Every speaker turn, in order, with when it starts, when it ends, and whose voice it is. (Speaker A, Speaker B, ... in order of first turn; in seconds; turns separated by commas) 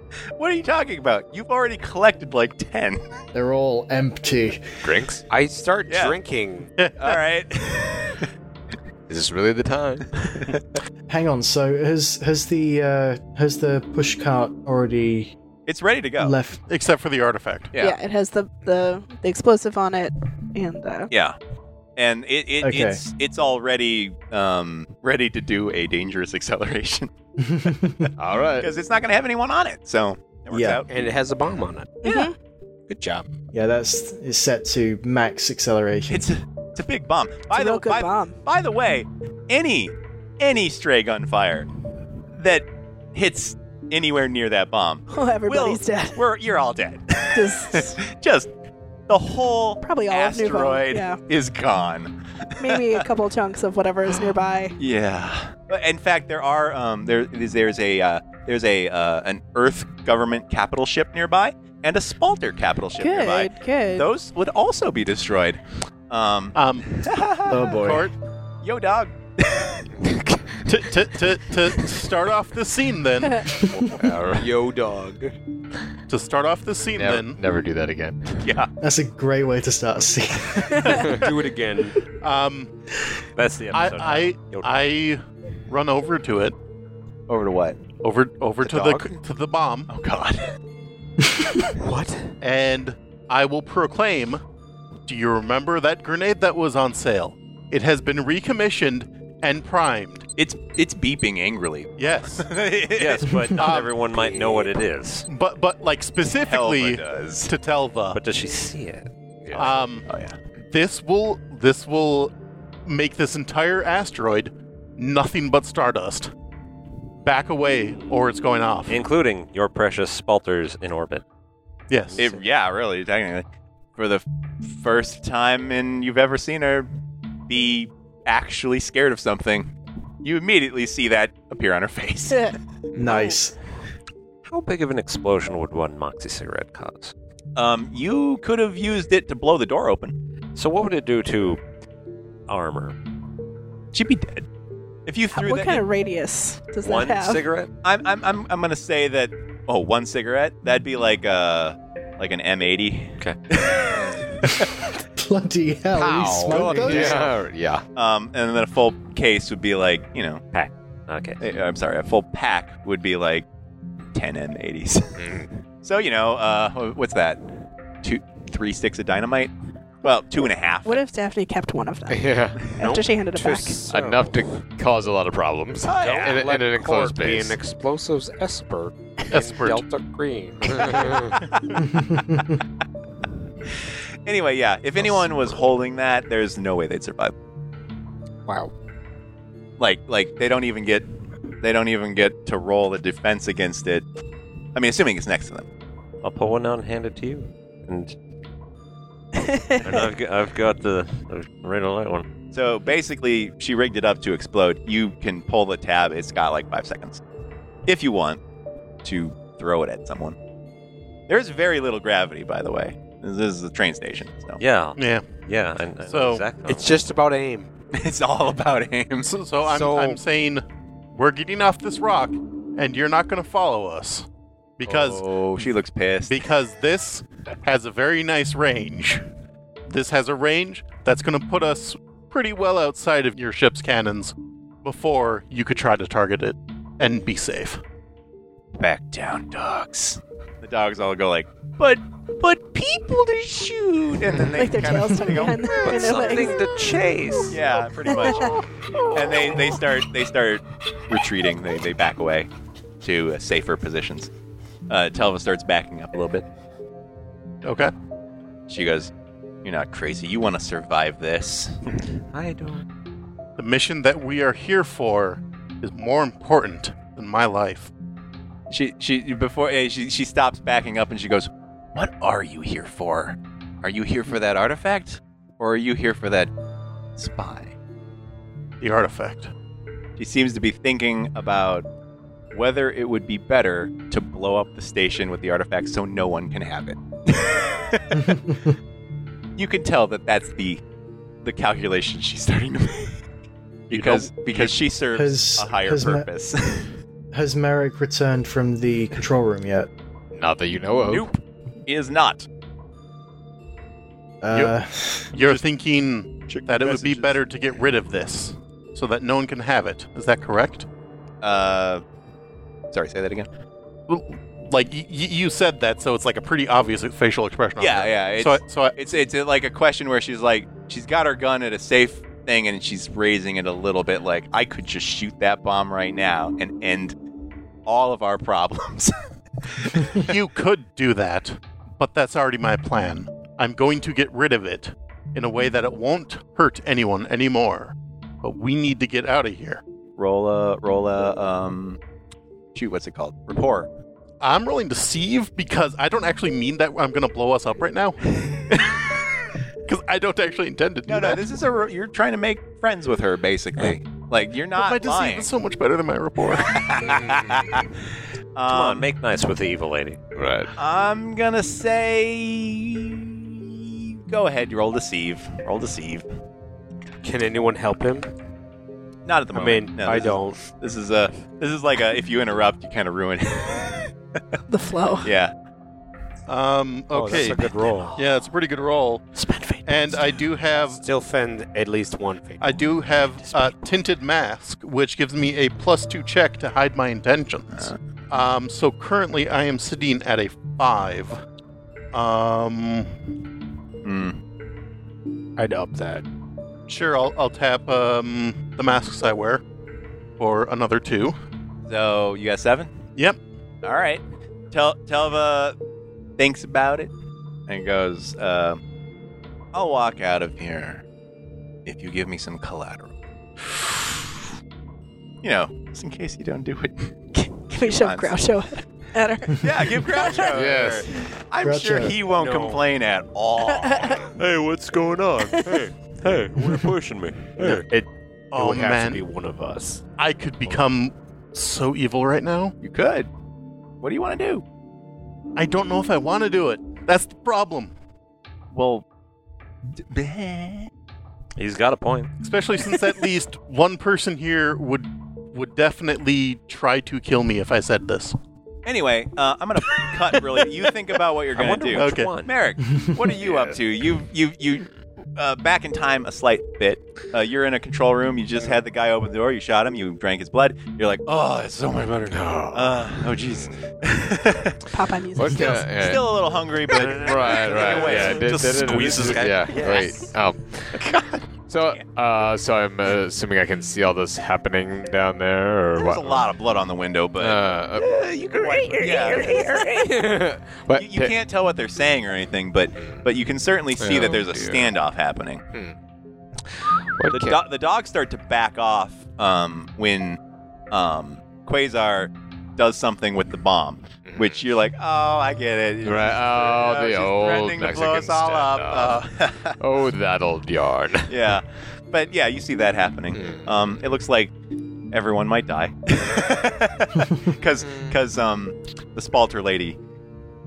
Speaker A: 0.4-3.0, Speaker B: 3.3-4.8, Speaker C: 4.8-5.2, Speaker D: 5.3-6.7, Speaker A: 5.9-6.2, Speaker E: 6.8-7.2, Speaker A: 7.0-8.3, Speaker C: 9.1-10.1, Speaker B: 11.1-15.3, Speaker A: 15.7-16.4, Speaker B: 16.2-16.6, Speaker E: 16.7-17.7, Speaker F: 17.8-21.1, Speaker A: 21.1-21.4, Speaker A: 21.9-27.1, Speaker B: 22.6-23.0, Speaker B: 27.4-28.1, Speaker C: 28.2-28.7, Speaker A: 28.6-30.9, Speaker B: 30.5-30.8, Speaker D: 30.9-32.0, Speaker F: 32.0-32.3, Speaker A: 32.0-32.3, Speaker D: 32.9-33.2, Speaker B: 33.5-36.3, Speaker A: 36.1-41.7, Speaker F: 37.5-38.4, Speaker A: 42.3-48.5, Speaker F: 45.1-46.2, Speaker F: 47.3-48.0, Speaker A: 49.1-53.0, Speaker F: 49.8-51.2, Speaker F: 52.6-54.8, Speaker A: 54.8-67.9, Speaker F: 63.0-64.1, Speaker E: 66.5-68.1, Speaker B: 67.5-68.1, Speaker A: 68.6-69.9, Speaker C: 70.0-70.6, Speaker E: 70.7-73.4, Speaker F: 73.2-73.5, Speaker B: 73.6-73.9, Speaker C: 73.9-74.5, Speaker D: 74.3-75.3, Speaker E: 76.1-77.4, Speaker C: 76.9-78.4, Speaker A: 78.4-78.7, Speaker B: 78.8-81.2, Speaker D: 81.0-82.0, Speaker E: 82.2-82.7, Speaker G: 83.3-84.7, Speaker E: 83.7-86.5, Speaker A: 87.3-87.8, Speaker E: 88.0-89.9, Speaker A: 88.6-89.1, Speaker A: 89.9-90.5, Speaker D: 91.8-92.3, Speaker E: 92.4-94.4, Speaker E: 95.1-100.2, Speaker A: 100.4-103.3, Speaker E: 102.0-102.5, Speaker G: 102.9-105.3, Speaker E: 103.5-104.8, Speaker E: 105.3-108.2, Speaker A: 106.4-107.5, Speaker G: 108.1-109.1, Speaker E: 109.5-110.0, Speaker A: 110.0-110.4, Speaker E: 110.7-112.3, Speaker E: 112.8-116.3, Speaker E: 117.2-119.0, Speaker G: 118.9-121.2, Speaker E: 121.9-122.3, Speaker A: 122.2-123.4, Speaker A: 124.0-126.9, Speaker A: 127.5-132.5, Speaker B: 132.9-133.5, Speaker G: 134.4-137.1, Speaker A: 137.6-140.2, Speaker G: 140.5-141.6, Speaker G: 142.5-142.9, Speaker A: 143.9-144.4, Speaker A: 145.1-145.8, Speaker F: 145.3-147.4, Speaker G: 146.8-147.7, Speaker A: 147.8-154.2, Speaker C: 153.9-154.2, Speaker B: 155.2-157.3, Speaker C: 155.9-157.8, Speaker A: 156.9-157.3, Speaker A: 157.9-160.4, Speaker G: 160.5-161.4, Speaker A: 161.4-163.4, Speaker A: 164.1-165.3, Speaker C: 165.2-165.6, Speaker A: 165.8-167.4, Speaker A: 168.0-171.0, Speaker F: 170.8-173.8, Speaker C: 172.1-172.6, Speaker D: 172.8-174.4, Speaker C: 173.9-177.6, Speaker A: 175.8-176.4, Speaker D: 175.9-181.3, Speaker E: 179.3-179.8, Speaker C: 180.8-181.4, Speaker B: 181.8-182.6, Speaker A: 184.2-187.3, Speaker A: 189.8-191.1, Speaker A: 191.6-194.0, Speaker A: 194.7-195.7, Speaker G: 196.2-198.1, Speaker F: 199.3-200.1, Speaker G: 199.8-202.3, Speaker A: 202.5-207.2, Speaker A: 207.9-208.4, Speaker A: 209.0-210.3, Speaker A: 211.3-214.6, Speaker G: 214.6-217.0, Speaker E: 214.9-215.3, Speaker E: 216.1-216.4, Speaker D: 216.7-217.7, Speaker A: 217.9-219.3, Speaker E: 219.2-224.3, Speaker D: 219.6-220.2, Speaker E: 224.8-225.3, Speaker A: 224.8-226.4, Speaker E: 226.2-229.3, Speaker E: 229.9-237.8, Speaker A: 238.8-245.8, Speaker F: 244.4-246.7, Speaker G: 245.7-247.6, Speaker A: 247.5-252.5, Speaker F: 248.0-248.6, Speaker A: 253.0-254.3, Speaker A: 254.9-256.4, Speaker E: 257.6-257.9, Speaker A: 258.7-259.1, Speaker A: 259.6-261.8, Speaker G: 262.3-262.8, Speaker E: 263.6-267.9, Speaker A: 268.7-276.5, Speaker A: 277.2-277.7, Speaker E: 278.8-279.5, Speaker A: 280.2-281.9, Speaker A: 282.5-288.2, Speaker B: 288.2-288.7, Speaker A: 289.6-290.8, Speaker A: 291.4-293.2, Speaker A: 293.9-296.9, Speaker E: 293.9-294.8, Speaker B: 295.1-296.3, Speaker B: 297.3-299.9, Speaker C: 300.3-301.3, Speaker A: 300.9-302.5, Speaker B: 304.4-305.5, Speaker E: 304.5-304.8, Speaker E: 305.3-310.9, Speaker A: 306.5-307.4, Speaker A: 311.4-312.0, Speaker A: 312.9-313.5, Speaker E: 314.1-319.1, Speaker A: 317.8-327.1, Speaker A: 327.9-330.1, Speaker E: 330.1-339.8, Speaker A: 340.2-342.0, Speaker A: 342.7-343.9, Speaker E: 344.4-348.8, Speaker E: 349.8-351.5, Speaker A: 351.1-355.5, Speaker E: 354.8-356.8, Speaker A: 356.6-357.9, Speaker C: 357.0-357.6, Speaker A: 358.6-359.1, Speaker G: 358.7-360.2, Speaker C: 360.4-360.7, Speaker A: 360.8-366.2, Speaker D: 367.2-368.3, Speaker A: 369.2-374.1, Speaker D: 369.5-370.6, Speaker F: 374.7-375.3, Speaker A: 375.2-375.5, Speaker E: 376.5-379.2, Speaker D: 377.1-378.2, Speaker D: 379.4-383.8, Speaker E: 379.8-381.0, Speaker E: 382.6-391.4, Speaker A: 387.7-388.0, Speaker E: 392.1-393.2, Speaker A: 394.0-394.4, Speaker D: 395.6-396.2, Speaker E: 396.9-399.6, Speaker E: 400.4-401.4, Speaker A: 401.9-402.9, Speaker A: 403.8-405.8, Speaker A: 406.4-407.1, Speaker A: 407.7-408.8, Speaker A: 409.7-411.0, Speaker A: 411.9-414.2, Speaker A: 415.4-417.1, Speaker F: 417.3-420.5, Speaker A: 417.8-418.4, Speaker A: 419.6-424.2, Speaker C: 420.5-421.0, Speaker B: 421.6-422.2, Speaker D: 422.4-422.8, Speaker F: 423.6-424.2, Speaker G: 424.4-427.8, Speaker D: 425.6-425.9, Speaker E: 427.6-429.2, Speaker D: 428.6-430.0, Speaker E: 430.2-432.7, Speaker A: 432.8-433.3, Speaker A: 434.0-434.6, Speaker E: 435.6-437.9, Speaker A: 438.7-439.0, Speaker A: 440.0-440.9, Speaker G: 441.6-442.3, Speaker E: 442.4-448.4, Speaker A: 448.9-464.8, Speaker G: 451.5-452.5, Speaker E: 451.9-452.3, Speaker C: 453.3-453.8, Speaker C: 462.3-463.8, Speaker F: 464.9-465.9, Speaker C: 465.4-466.4, Speaker A: 465.5-468.8, Speaker C: 466.9-471.0, Speaker D: 467.6-468.3, Speaker G: 467.6-470.1, Speaker D: 469.7-470.1, Speaker A: 471.0-471.3, Speaker C: 471.7-476.5, Speaker A: 475.9-480.2, Speaker C: 477.4-478.1, Speaker G: 478.6-479.6, Speaker C: 479.8-481.3, Speaker A: 480.9-485.6, Speaker C: 482.9-483.2, Speaker C: 484.0-484.9, Speaker C: 487.2-487.6, Speaker A: 487.3-490.4, Speaker A: 490.9-499.8, Speaker C: 494.2-494.6, Speaker C: 496.0-501.6, Speaker A: 501.3-504.5, Speaker C: 503.3-503.7, Speaker A: 505.1-510.0, Speaker C: 507.8-508.2